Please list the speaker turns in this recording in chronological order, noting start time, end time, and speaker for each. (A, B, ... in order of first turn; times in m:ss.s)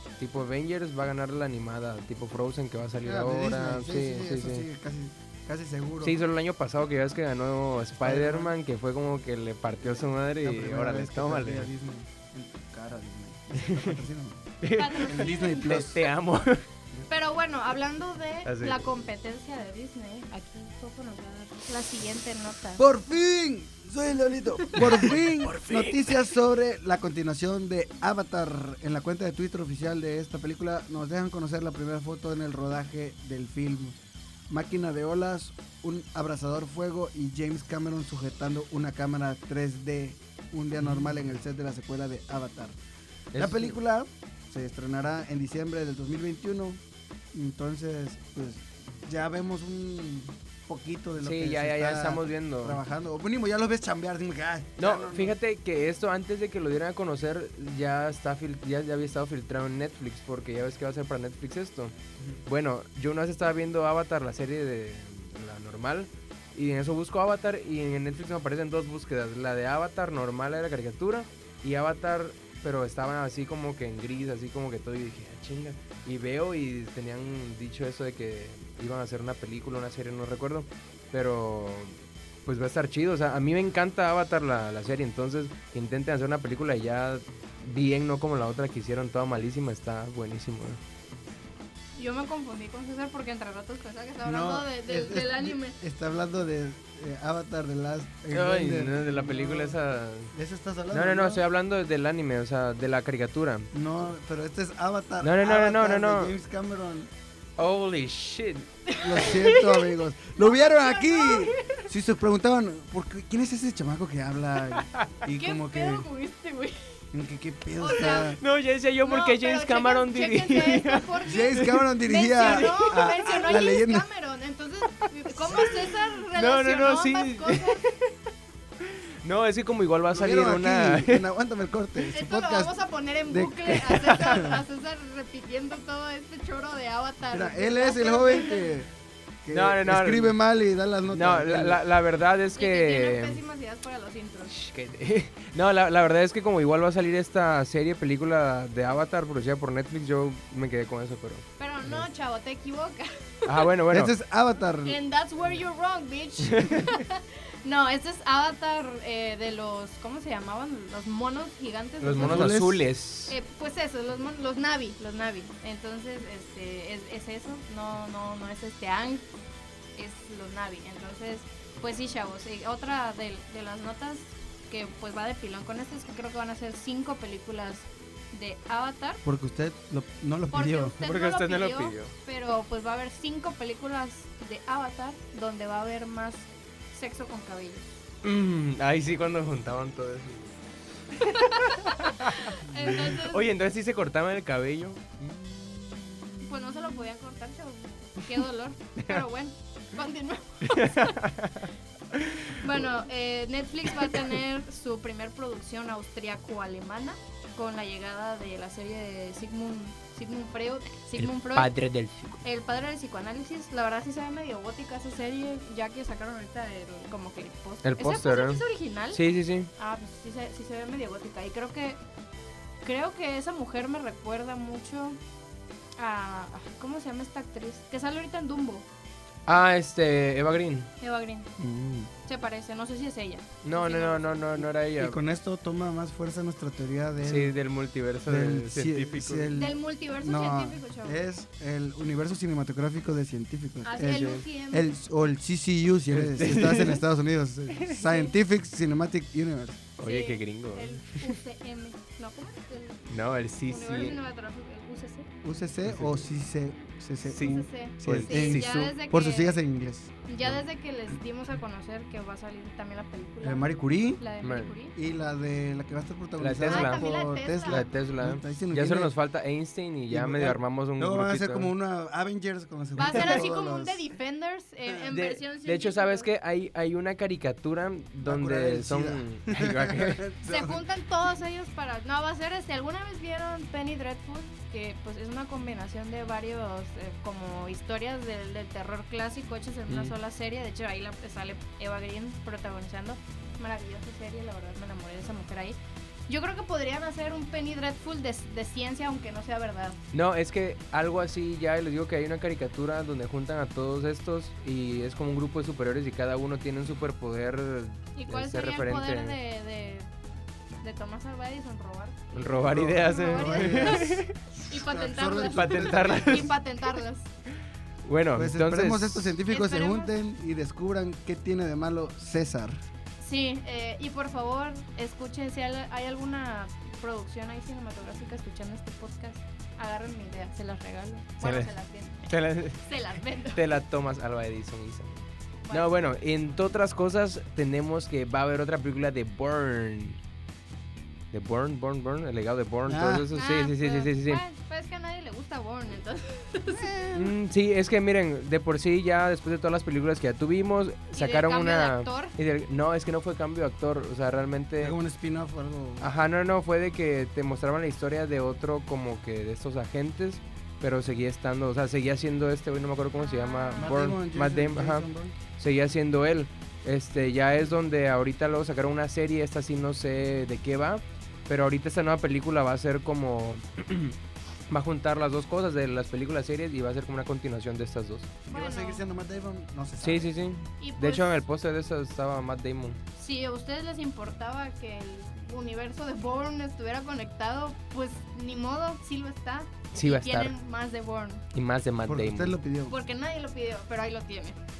0:00.2-0:04.6 A
0:03.0-0:06.2 B
0:06.0-0:11.7 A
0:08.0-0:08.5 B
0:09.8-0:14.5 B
0:13.5-0:14.0 A
0:14.6-0:16.6 A
0:14.7-0:15.9 C
0:15.0-0:16.1 B
0:17.1-0:22.8 C
0:18.4-0:18.9 A
0:22.8-0:34.0 B
0:24.7-0:26.3 A
0:34.5-0:42.8 B
0:43.3-0:43.8 A
0:43.4-0:46.8 B
0:47.3-0:55.4 B
0:51.2-0:52.8 A
0:54.8-1:01.9 A
1:02.4-1:30.8 A
1:32.0-1:35.8 C
1:34.2-1:39.8 B
1:38.3-1:40.3 A
1:40.3-1:41.4 B
1:40.9-1:43.7 A
1:43.7-1:47.1 B
1:45.2-1:46.3 A
1:47.6-1:49.6 A
1:48.9-1:51.5 C
1:49.0-1:56.1 B
1:54.7-1:55.1 A
1:55.3-1:57.0 C
1:57.1-1:58.4 B
1:57.8-1:58.4 C
1:58.0-2:01.8 A
1:59.0-2:07.8 C
2:01.2-2:04.1 B
2:02.4-2:03.4 A
2:05.0-2:08.1 A
2:08.8-2:11.3 A
2:10.1-2:14.4 B
2:12.1-2:18.7 C
2:13.7-2:14.5 A
2:17.3-2:18.9 B
2:19.4-2:21.8 B
2:19.5-2:20.4 A
2:21.1-2:23.4 A
2:22.5-2:24.5 C
2:24.5-2:32.0 A
2:31.6-2:33.7 C
2:33.4-2:34.1 A
2:33.9-2:35.0 B
2:34.8-2:42.6 C
2:36.5-2:36.9 A
2:42.0-2:43.4 A
2:42.2-2:42.8 B
2:43.3-2:49.2 C
2:50.0-2:59.2 C
2:59.2-3:01.0 B
3:00.5-3:07.9 C
3:01.0-3:02.1 A
3:08.2-3:10.6 A
3:11.1-3:17.0 A
3:11.2-3:13.5 C
3:16.4-3:21.2 C
3:19.0-3:19.2 A
3:20.6-3:22.9 A
3:22.6-3:31.7 C
3:24.0-3:24.2 A
3:31.2-3:32.4 A
3:32.4-3:39.2 C
3:37.8-3:39.7 A
3:39.7-3:42.0 C
3:42.8-3:45.2 C
3:46.0-3:48.8 C
3:49.5-3:50.9 A
3:51.0-3:51.5 C
3:51.6-3:52.1 B
3:52.2-3:54.4 C
3:53.6-3:55.2 A
3:55.0-3:57.6 B
3:57.2-3:59.5 A
3:58.3-4:09.8 B
3:59.5-4:01.2 C
4:03.8-4:04.9 C
4:06.1-4:07.0 A
4:07.7-4:08.3 A
4:10.0-4:11.4 A
4:10.0-4:13.0 C
4:13.1-4:14.2 A
4:13.6-4:15.3 C
4:15.4-4:20.1 B
4:15.8-4:16.3 A
4:17.3-4:18.9 A
4:17.4-4:19.6 C
4:20.3-4:23.7 C
4:23.4-4:24.2 B
4:24.2-4:25.0 C
4:24.4-4:24.7 A
4:25.0-4:29.1 B
4:26.4-4:27.1 A
4:26.7-4:27.9 C
4:27.7-4:31.7 A
4:30.1-4:34.0 B
4:33.0-4:36.3 C
4:33.0-4:33.4 A
4:35.0-4:40.2 A
4:38.2-4:40.8 B
4:40.5-5:00.0 C
4:49.9-4:50.2 A
5:00.1-5:09.4 A
5:08.2-5:10.1 C
5:10.8-5:17.3 C
5:12.3-5:14.4 A
5:12.6-5:14.2 B
5:14.8-5:16.5 B
5:15.4-5:16.6 A
5:18.0-5:19.4 A
5:18.3-5:22.8 B
5:19.5-5:20.1 C
5:23.2-5:33.6 C
5:31.4-5:32.9 A
5:33.5-5:40.2 A
5:35.7-5:36.6 C
5:41.3-5:44.4 A
5:42.9-5:43.3 B
5:43.3-5:47.3 C
5:46.7-5:47.1 B
5:47.1-5:55.0 A
5:51.1-5:52.3 C
5:54.8-5:56.1 B
5:56.0-6:14.2 A
6:03.2-6:03.9 C
6:03.8-6:05.4 B
6:14.7-6:18.3 A
6:18.5-6:20.3 B
6:18.5-6:19.0 C
6:20.0-6:23.0 A
6:20.8-6:21.3 C
6:23.1-6:31.4 C
6:29.9-6:30.5 A
6:31.5-6:32.6 A
6:32.0-6:32.9 B
6:32.9-6:34.6 C